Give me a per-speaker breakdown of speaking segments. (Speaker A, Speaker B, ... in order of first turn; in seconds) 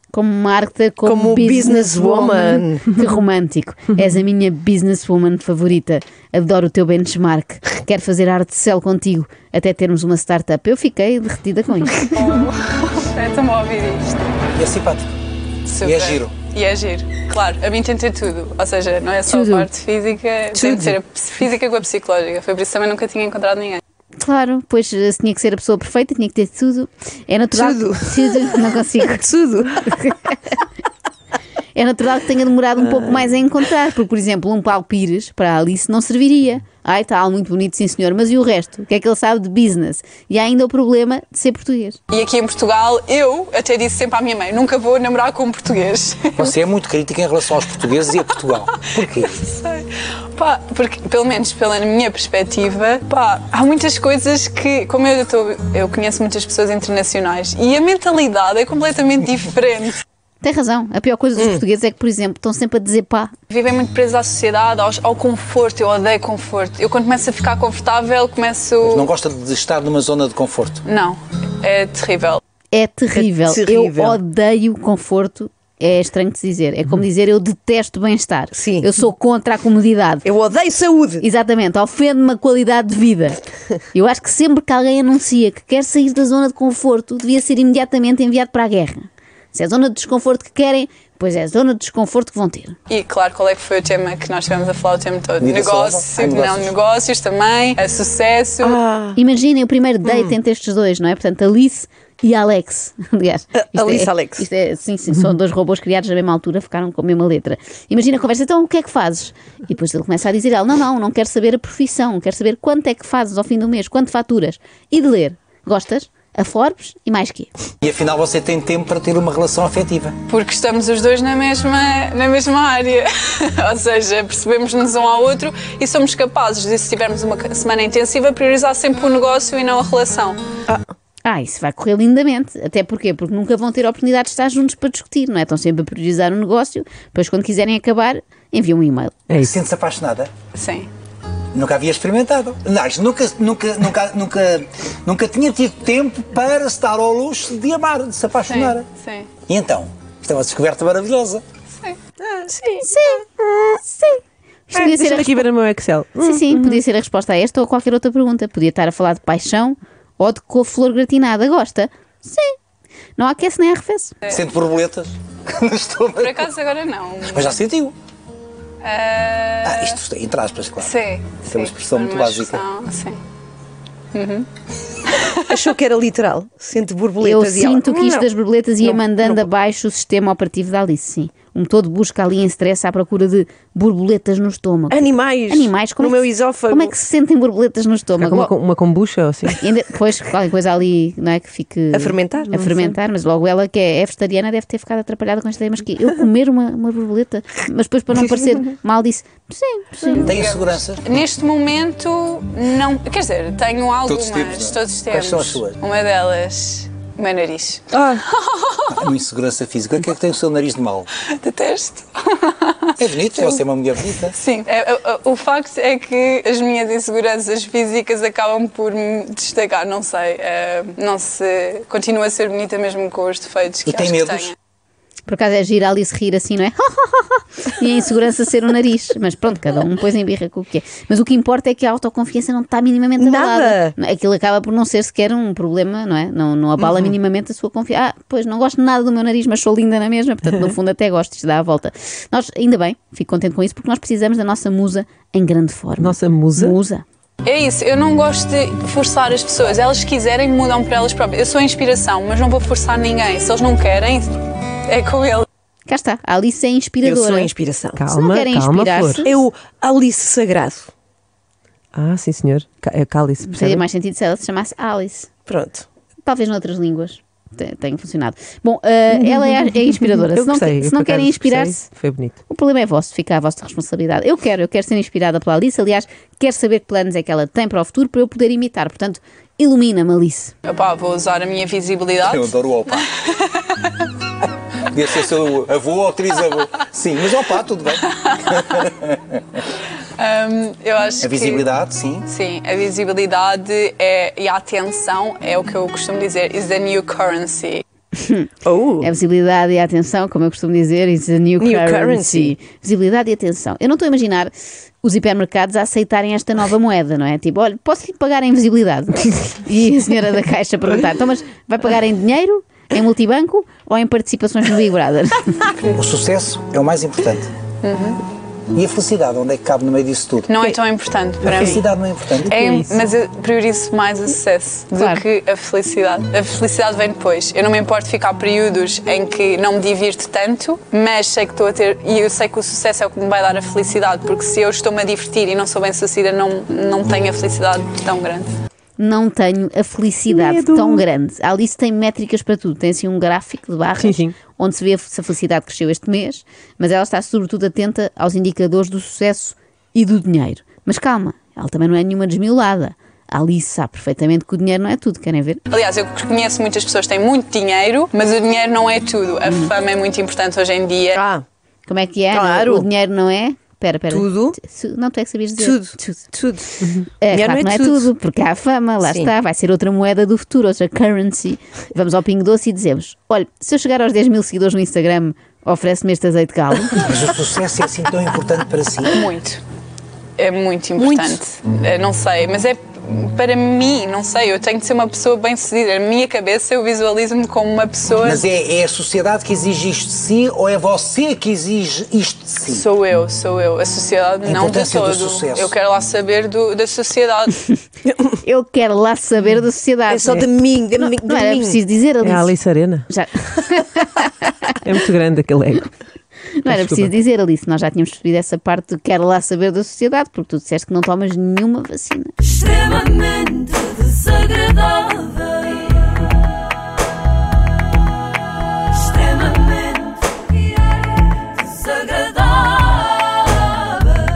Speaker A: 0.1-12.3, 24.2-29.3, 29.9-30.2, 31.8-42.0, 60.4-63.3, 72.7-80.3, 81.2-83.4, 83.9-92.8, 99.2-117.5, 131.2-139.2, 152.8-155.5, 156.2-162.6, 163.2-164.2, 177.2-188.5, 189.6-200.4, 225.3-247.0, 255.9-257.5, 258.1-259.3, 263.5-265.3, 266.2-271.9, 272.5-280.6, 298.1-298.5, 299.0-304.5, 305.0-315.8, 324.9-325.2, 339.0-355.6, 359.5-359.7, 361.9-366.3, 367.2-377.1, 398.4-402.6, 403.1-404.2, 406.6-412.6
Speaker B: 1.0-2.9, 19.3-19.7, 20.6-21.0, 27.5-29.9, 32.8-33.2, 61.4-61.6, 73.1-74.2, 78.5-78.9, 80.2-81.2, 98.6-99.2, 103.6-104.5, 152.4-152.8, 175.5-179.5, 184.9-186.9, 191.9-192.8, 233.2-233.9, 236.8-237.1, 257.0-258.1, 259.2-260.9, 265.5-265.9, 298.6-299.1, 301.6-302.6, 361.1-361.4, 362.3-362.9, 364.1-364.6, 365.6-368.1, 369.0-369.3, 381.0-381.4, 400.1-401.8
Speaker C: 11.9-14.2, 15.7-23.8, 42.1-46.5, 48.9-60.0, 63.5-69.1, 70.8-72.4, 92.9-98.8, 120.3-130.4, 140.6-140.9, 148.4-149.3, 166.2-167.6, 168.8-170.0, 170.8-173.2, 174.1-174.5, 175.0-175.7, 200.4-208.9, 211.2-224.6, 247.4-255.5, 280.6-284.1, 288.1-288.9, 290.2-291.7, 292.2-297.8, 317.8-318.2, 320.5-321.8, 322.5-338.5, 355.7-361.2, 379.1-379.6, 380.4-388.5, 392.6-397.7
Speaker D: 14.6-15.1, 15.8-16.3, 46.4-49.5, 68.8-70.8, 95.4-96.7, 117.8-120.2, 139.4-140.3, 141.5-148.9, 149.5-151.4, 164.3-166.4, 167.3-167.9, 169.6-170.9, 171.5-172.6, 200.2-201.2, 204.1-205.8, 208.9-211.1, 213.0-214.3, 223.9-224.5, 282.2-283.1, 284.9-289.2, 291.2-292.3, 315.9-317.5, 318.7-320.5, 321.4-322.6, 377.0-379.1, 388.2-392.9, 394.4-395.7
Speaker E: 139.3-139.6, 154.7-156.8, 188.2-189.6, 207.9-208.2, 246.0-246.8, 257.9-259.3, 261.9-263.8, 270.3-272.4, 321.5-321.8, 322.5-323.0, 340.3-341.1, 344.0-344.4, 402.2-403.1, 404.8-405.9, 406.7-407.1